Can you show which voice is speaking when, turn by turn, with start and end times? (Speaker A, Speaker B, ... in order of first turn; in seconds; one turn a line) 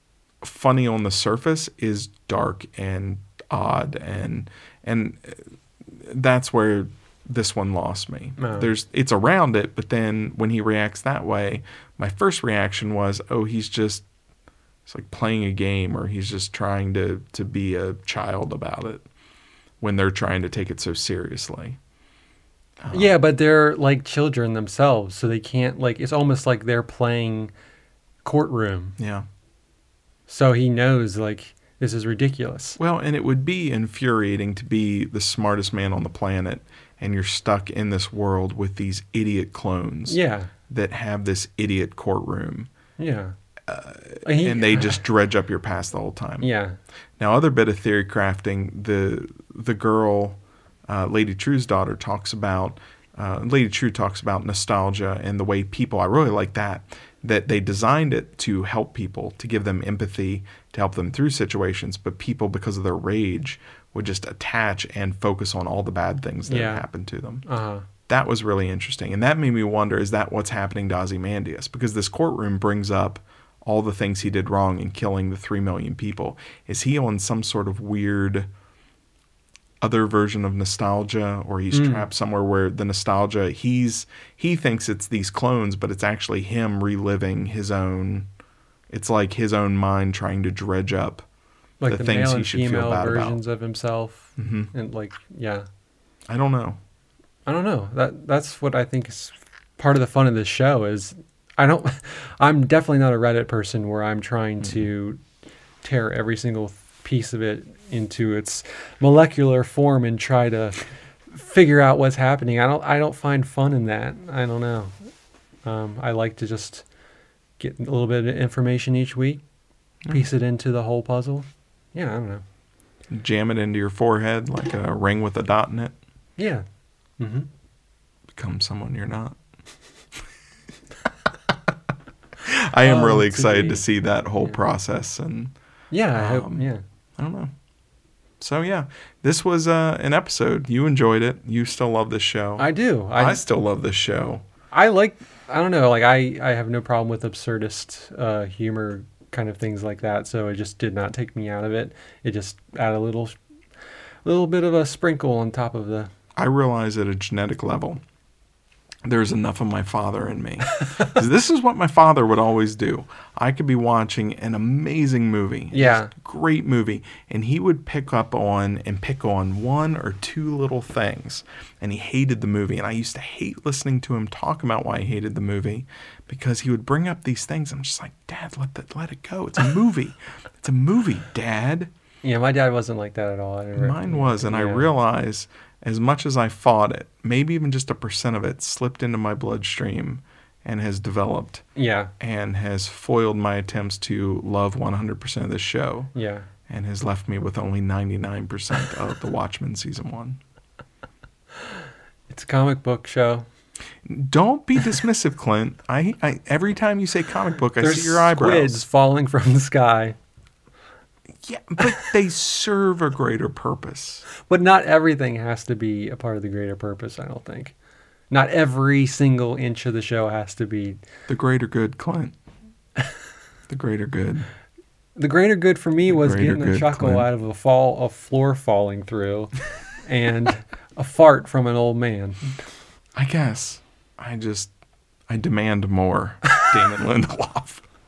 Speaker A: 0.4-14.0
Speaker B: 8.4-8.7
Speaker A: 14.8-19.0
Speaker A: 19.8-21.8
Speaker A: 22.8-23.1
Speaker B: 22.9-27.5
Speaker B: 28.2-29.0
Speaker A: 29.0-29.2
Speaker B: 30.3-32.8
Speaker A: 32.8-40.2
Speaker B: 40.1-40.5
Speaker A: 40.7-42.7
Speaker B: 43.0-43.3
Speaker A: 43.7-46.5
Speaker B: 44.2-45.0
Speaker B: 46.4-46.8
Speaker A: 47.2-67.4
Speaker B: 66.5-66.8
Speaker B: 67.5-67.8
Speaker A: 68.1-78.5
Speaker A: 79.8-88.3
Speaker B: 81.7-82.1
Speaker A: 88.9-91.2
Speaker B: 91.8-95.7
Speaker A: 91.9-93.4
Speaker A: 94.4-94.7
Speaker A: 96.3-96.8
Speaker B: 97.5-105.2
Speaker B: 105.8-115.0
Speaker B: 115.6-116.8
Speaker B: 117.6-119.4
Speaker B: 120.1-122.4
Speaker A: 123.1-126.0
Speaker B: 126.4-126.6
Speaker B: 127.2-127.5
Speaker A: 128.3-129.4
Speaker A: 132.4-135.5
Speaker B: 132.8-133.8
Speaker B: 135.9-136.8
Speaker A: 136.1-137.5
Speaker A: 138.4-144.4
Speaker B: 142.6-143.4
Speaker B: 144.7-153.3
Speaker B: 154.2-156.1
Speaker A: 156.3-158.0
Speaker A: 159.0-181.9
Speaker B: 165.7-166.1
Speaker B: 182.2-184.9
Speaker A: 183.8-191.6
Speaker B: 191.8-192.1
Speaker A: 192.2-196.1
Speaker B: 196.1-196.5
Speaker A: 196.7-200.4
Speaker B: 202.3-203.4
Speaker A: 204.0-208.8
Speaker B: 207.8-210.2
Speaker A: 211.4-214.2
Speaker B: 214.4-217.7
Speaker B: 218.3-221.0
Speaker A: 221.3-222.3
Speaker A: 223.7-224.5
Speaker B: 225.2-232.5
Speaker A: 226.1-227.3
Speaker A: 233.2-234.7
Speaker A: 235.3-237.8